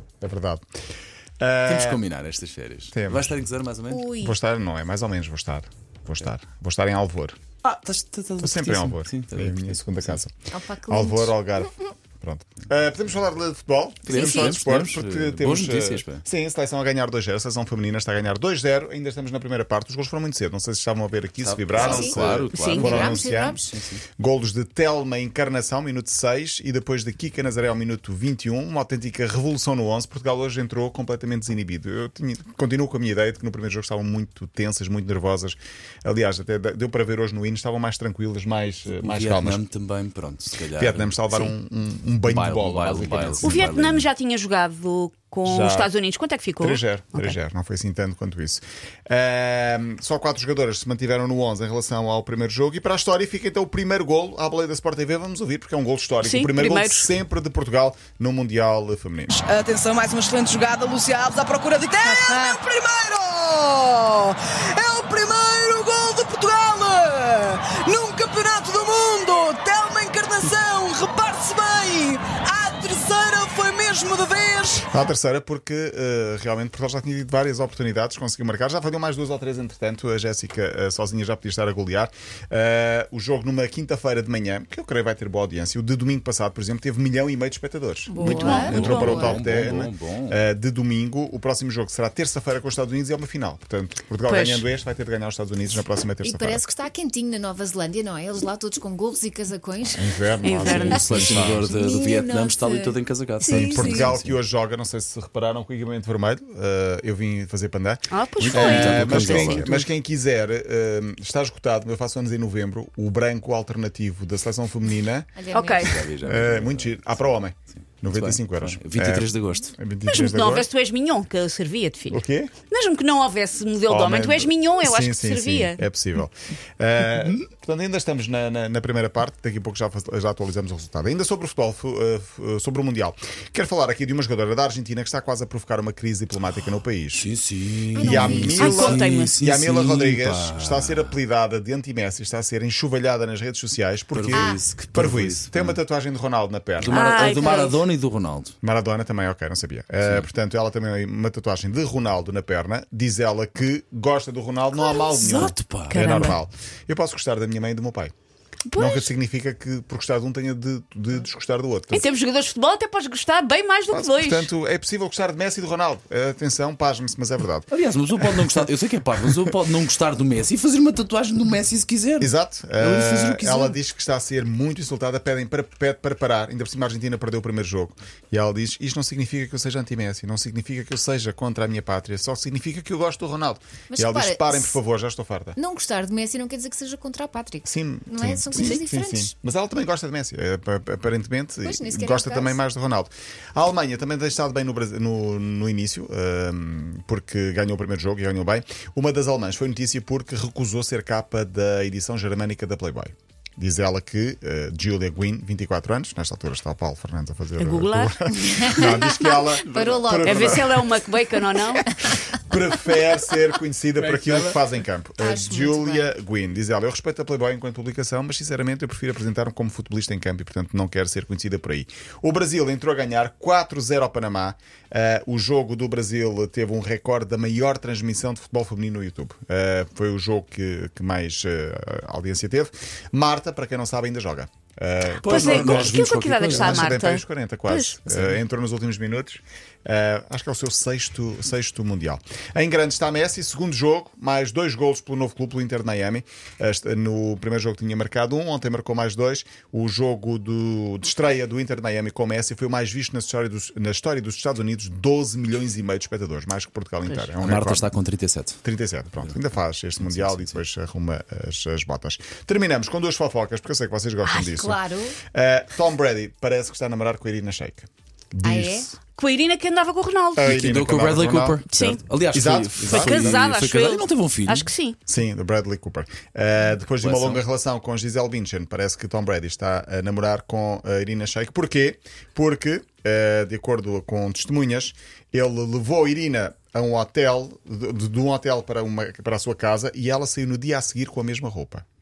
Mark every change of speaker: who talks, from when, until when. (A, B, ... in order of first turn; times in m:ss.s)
0:00.2-0:00.6 A
0:01.4-0:02.0 A
0:01.6-0:04.0 B
0:02.9-0:03.3 A
0:03.9-0:04.4 C
0:04.2-0:07.4 A
0:07.6-0:10.2 B
0:08.4-0:23.6 A
0:10.5-0:11.3 C
0:14.1-0:16.2 B
0:14.1-0:14.6 D
0:21.4-0:24.0 B
0:21.7-0:22.2 C
0:22.5-0:23.0 D
0:22.7-0:23.7 C
0:24.2-0:39.6 A
0:38.9-0:41.5 B
0:40.7-0:43.6 A
0:42.2-0:44.1 B
0:43.4-0:47.3 D
0:45.4-0:45.9 A
0:46.6-0:59.4 A
0:56.2-0:57.1 D
0:59.3-1:14.9 E
1:02.0-1:02.5 C
1:14.9-1:36.6 A
1:28.1-1:29.4 C
1:28.2-1:29.3 D
1:28.5-1:30.4 B
1:34.2-1:34.6 D
1:36.2-1:44.1 C
1:40.0-1:41.7 A
1:40.4-1:41.2 D
1:40.6-1:44.4 B
1:43.4-1:55.3 A
1:48.1-1:49.7 D
1:48.4-1:49.8 B
1:55.3-1:56.0 C
1:55.5-1:56.0 D
1:55.8-1:57.0 B
1:56.2-2:00.7 A
1:58.0-1:59.7 B
2:00.1-2:05.8 D
2:02.1-2:02.5 A
2:03.9-2:17.3 A
2:17.1-2:21.1 B
2:17.9-2:18.8 C
2:18.0-2:27.5 A
2:18.4-2:19.4 D
2:24.1-2:25.8 B
2:24.3-2:24.6 C
2:26.8-2:28.5 B
2:26.9-2:27.8 D
2:28.6-2:38.1 A
2:34.8-2:36.3 B
2:35.9-2:36.4 D
2:38.7-2:39.1 D
2:38.8-2:42.1 A
2:41.9-2:44.5 D
2:43.9-2:48.6 A
2:47.7-2:53.8 B
2:52.2-3:05.6 A
3:03.9-3:04.8 C
3:05.6-3:09.3 C
3:07.6-3:31.0 A
3:11.6-3:12.6 C
3:27.6-3:29.2 D
3:28.4-3:32.3 C
3:29.6-3:30.5 B
3:30.2-3:31.9 D
3:32.1-4:17.9 A
3:34.0-3:34.7 B
3:35.2-3:36.1 C
3:55.2-3:58.0 D
3:55.2-3:56.9 B
4:17.4-4:18.6 B
4:18.6-4:24.8 A
4:20.0-4:20.6 B
4:24.2-4:24.5 D
4:24.6-4:25.2 C
4:25.3-4:29.0 A
4:28.4-4:28.9 C
4:29.2-4:30.5 D
4:30.4-4:31.6 A
4:30.4-4:34.7 B
4:31.7-4:32.0 D
4:32.3-4:33.4 A
4:32.9-4:35.0 D
4:35.1-4:51.8 A
4:37.0-4:37.4 B